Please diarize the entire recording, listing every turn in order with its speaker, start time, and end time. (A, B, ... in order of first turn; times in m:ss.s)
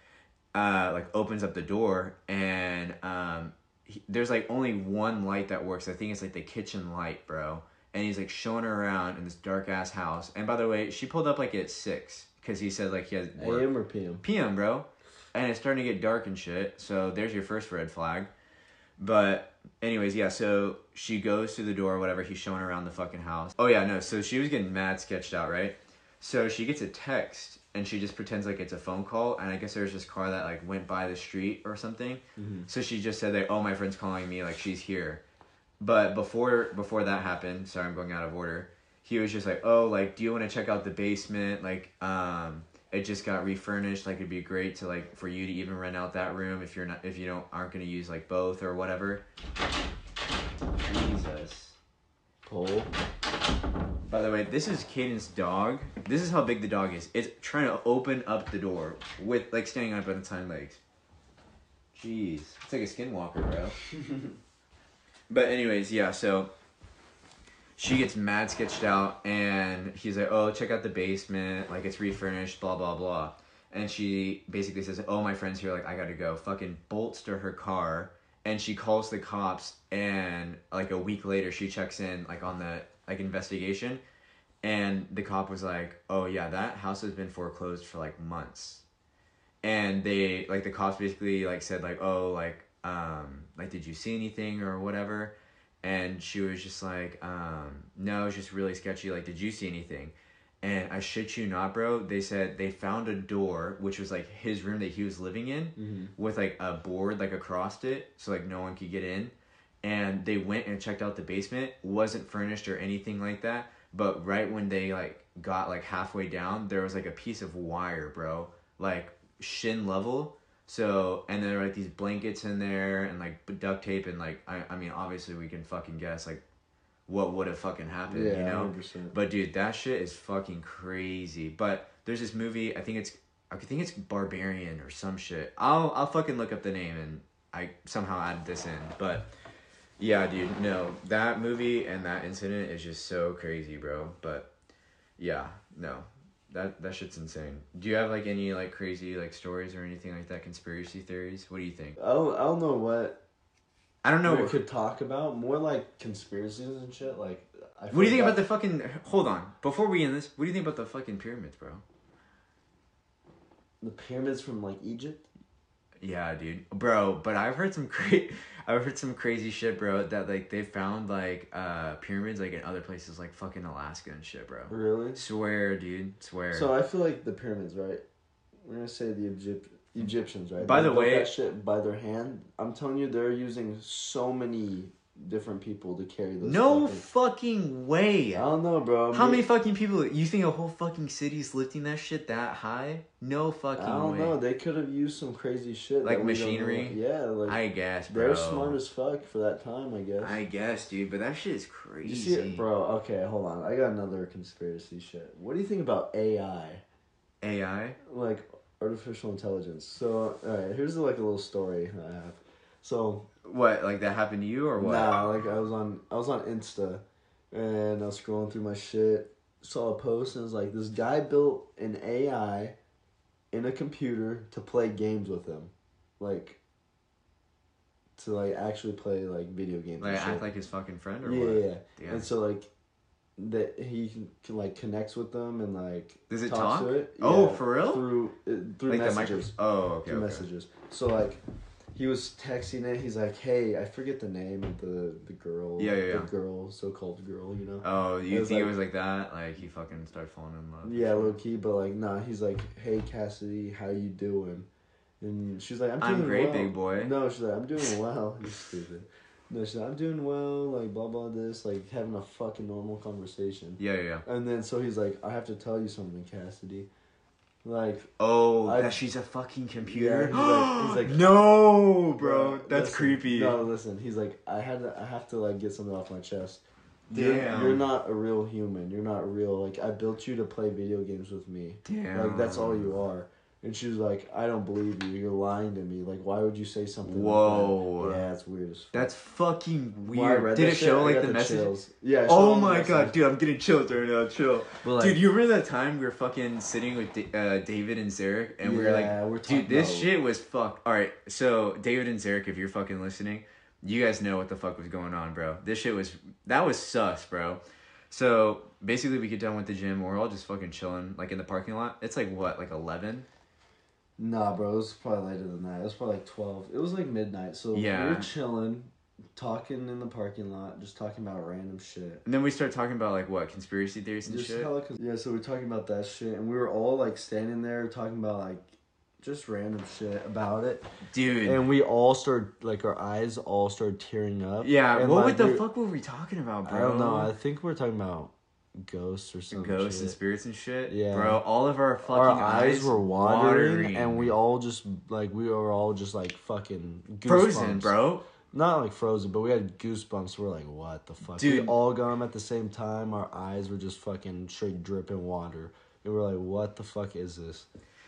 0:00.5-0:18.3 A
0:13.4-0:14.2 B
0:19.0-0:35.2 A
0:32.4-0:32.7 B
0:35.8-0:49.2 A
0:50.8-0:51.8 A
0:52.4-0:52.9 B
0:54.1-1:00.8 A
1:01.9-1:03.8 A
1:05.3-1:06.5 A
1:07.8-1:24.0 A
1:24.6-1:28.8 A
1:29.6-2:06.4 A
1:45.8-1:46.1 B
2:07.1-2:19.3 A
2:08.1-2:09.2 B
2:20.0-2:24.5 A
2:25.2-2:32.0 A
2:32.0-2:33.2 B
2:34.0-2:34.6 A
2:34.2-2:38.4 B
2:37.9-2:41.8 A
2:43.8-2:45.2 B
2:46.0-2:56.7 A
2:54.7-2:55.2 B
2:56.5-2:58.0 B
2:58.6-3:07.0 B
3:00.6-3:01.3 A
3:06.4-3:08.5 A
3:08.3-3:09.4 B
3:09.1-3:14.4 A
3:13.8-3:20.4 B
3:16.0-3:18.8 A
3:20.2-3:22.6 A
3:22.0-3:26.8 B
3:27.4-3:28.0 A
3:28.0-3:33.3 B
3:33.4-3:35.1 A
3:34.8-3:42.8 B
3:43.5-3:46.6 B
3:48.2-3:50.4 B
3:50.0-3:52.3 A
3:51.2-3:52.7 B
3:53.4-4:01.4 B
3:56.3-3:58.1 A
3:58.9-4:00.4 A
4:01.9-4:08.7 B
4:05.8-4:06.3 A
4:07.8-4:11.4 A
4:10.8-4:14.7 B
4:15.2-4:26.9 B
4:16.0-4:17.1 A
4:23.8-4:24.2 A
4:27.6-4:28.1 B
4:28.2-4:33.6 A
4:28.6-4:29.0 B
4:29.8-4:31.3 B
4:32.2-4:49.1 B
4:37.1-4:37.8 A
4:41.8-4:43.0 A
4:47.0-4:48.2 A
4:48.9-4:51.7 A
4:50.1-4:53.2 B
4:52.2-5:13.3 A
4:54.8-4:55.2 B
4:58.6-5:00.1 B
5:14.2-5:22.2 B
5:17.7-5:18.3 A
5:22.2-5:24.7 A
5:24.2-5:28.6 B
5:29.2-5:30.9 B
5:31.1-5:31.6 A
5:31.4-5:35.6 B
5:34.6-5:37.3 A
5:36.6-5:40.2 B
5:39.5-5:44.3 A
5:40.9-5:41.4 B
5:42.0-5:57.7 B
5:47.2-5:48.2 A
5:51.4-5:51.7 A